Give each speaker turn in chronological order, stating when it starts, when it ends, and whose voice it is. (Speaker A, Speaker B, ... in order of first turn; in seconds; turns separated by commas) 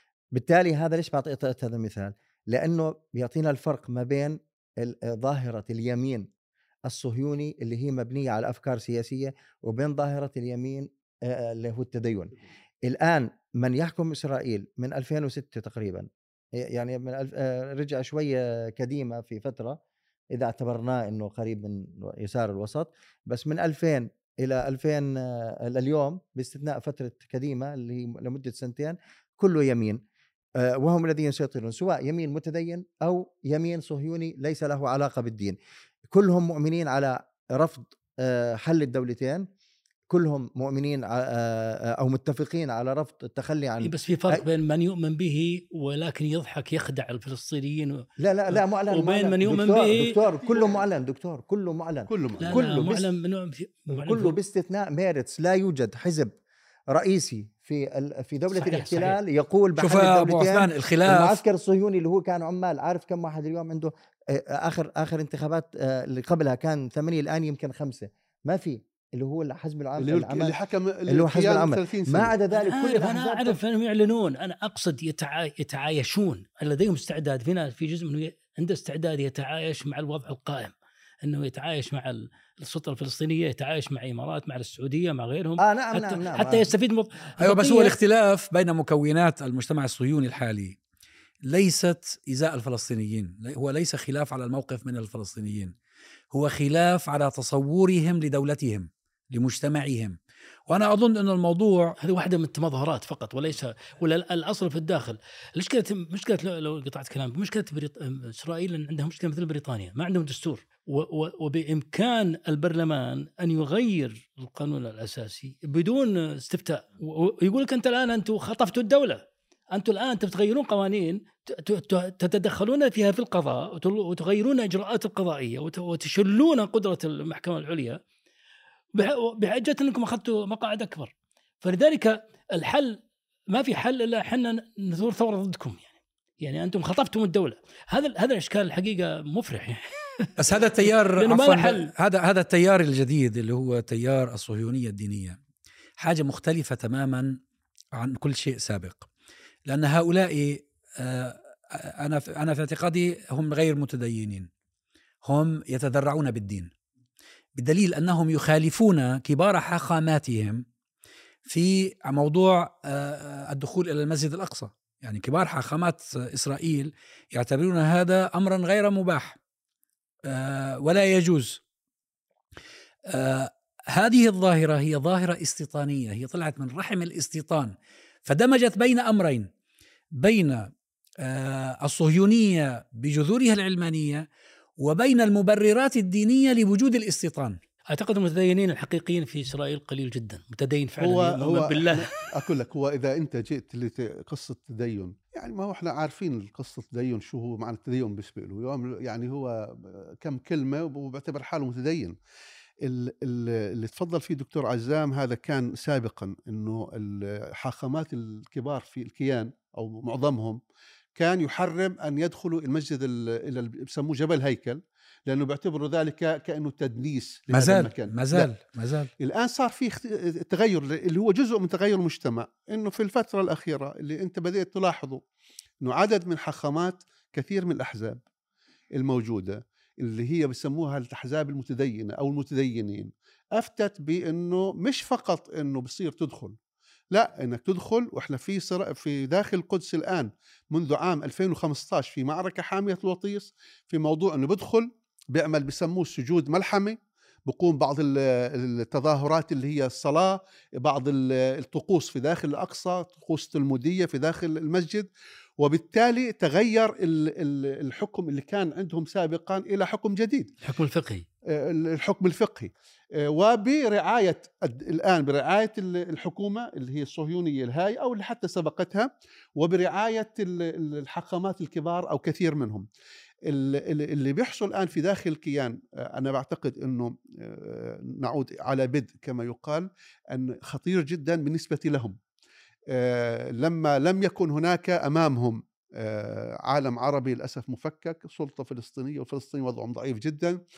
Speaker A: 0.3-6.3, Speaker A: 6.9-12.3, Speaker A: 12.8-19.8, Speaker A: 20.3-30.0, Speaker A: 30.6-35.6, Speaker A: 36.1-39.5, Speaker A: 40.1-44.4, Speaker B: 43.8-50.2, Speaker A: 48.2-53.1, Speaker C: 50.5-50.8, Speaker C: 52.1-52.7, Speaker B: 52.4-54.4, Speaker A: 53.9-56.3, Speaker A: 56.9-70.5, Speaker B: 58.5-59.2, Speaker D: 59.8-61.4, Speaker C: 70.0-72.3, Speaker A: 71.1-73.6, Speaker B: 72.6-88.0, Speaker A: 85.6-86.7, Speaker D: 87.4-90.8, Speaker D: 91.5-95.7, Speaker D: 96.3-102.0, Speaker B: 102.0-128.0, Speaker B: 128.9-133.0, Speaker B: 133.5-141.9, Speaker D: 140.4-145.4, Speaker D: 146.0-147.4, Speaker D: 147.9-149.1, Speaker D: 149.7-154.5, Speaker D: 155.2-156.7, Speaker D: 157.6-160.7, Speaker D: 161.5-169.4, Speaker D: 170.3-171.6, Speaker D: 173.1-177.7, Speaker D: 178.2-179.5, Speaker D: 180.2-184.3, Speaker D: 184.8-187.6, Speaker B: 187.9-192.1, Speaker C: 191.0-202.2, Speaker C: 202.8-210.6, Speaker C: 211.2-218.5, Speaker D: 217.5-219.1, Speaker C: 219.2-225.2, Speaker C: 225.8-228.2, Speaker C: 228.9-236.6, Speaker C: 237.1-260.5, Speaker B: 260.6-261.3, Speaker C: 261.5-272.9, Speaker C: 273.5-282.2, Speaker C: 282.9-290.6